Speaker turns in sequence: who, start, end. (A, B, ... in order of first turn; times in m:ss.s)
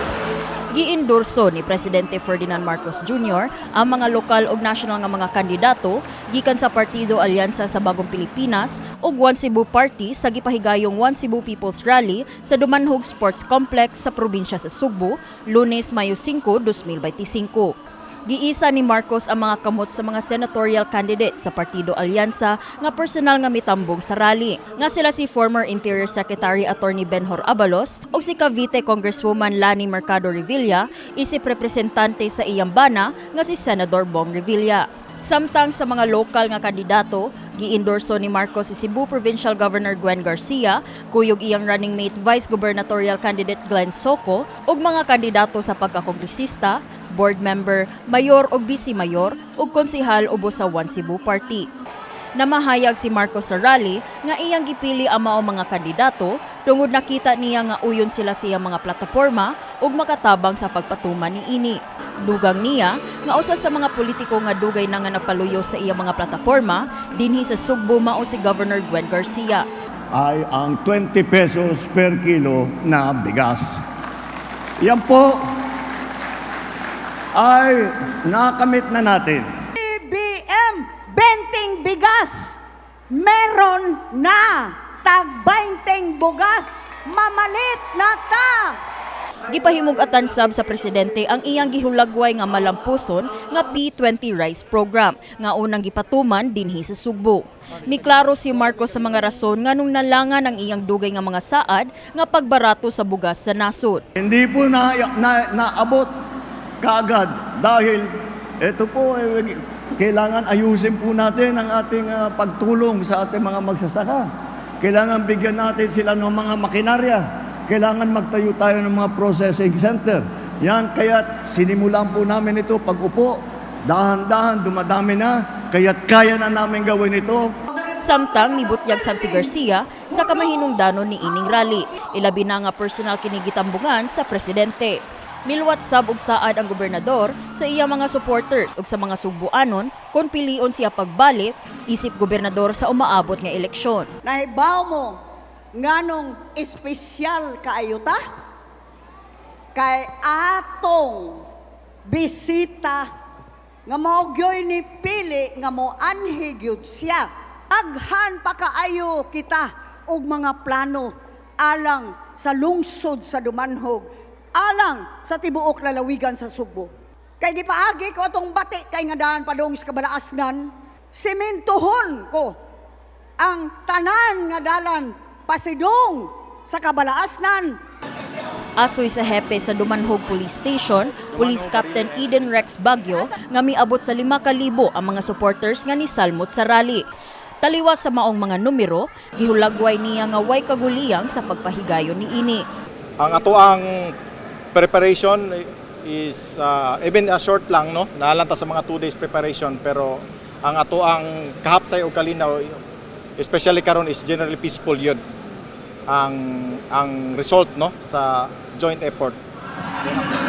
0:00.7-0:17.7 A
0:18.3-0:51.7 A
0:52.4-1:09.7 A
1:10.1-1:13.8 B
1:14.8-1:15.4 B
1:17.4-1:19.5 B
1:19.8-1:22.6 C
1:23.1-1:28.8 C
1:29.5-1:44.0 A
1:44.2-1:46.1 B
1:46.8-1:48.1 B
1:48.6-1:54.3 B
1:54.8-2:07.5 B
2:08.0-2:24.1 A
2:24.2-2:25.2 C
2:25.8-2:28.2 C
2:29.8-2:31.5 C
2:32.1-2:33.1 C
2:33.9-2:52.6 C
2:53.4-2:57.8 C
2:58.8-3:07.0 A
3:01.3-3:02.6 D
3:07.6-3:12.6 A
3:13.2-3:14.1 D
3:14.7-3:22.8 D
3:23.4-3:25.2 D
3:26.1-3:29.4 D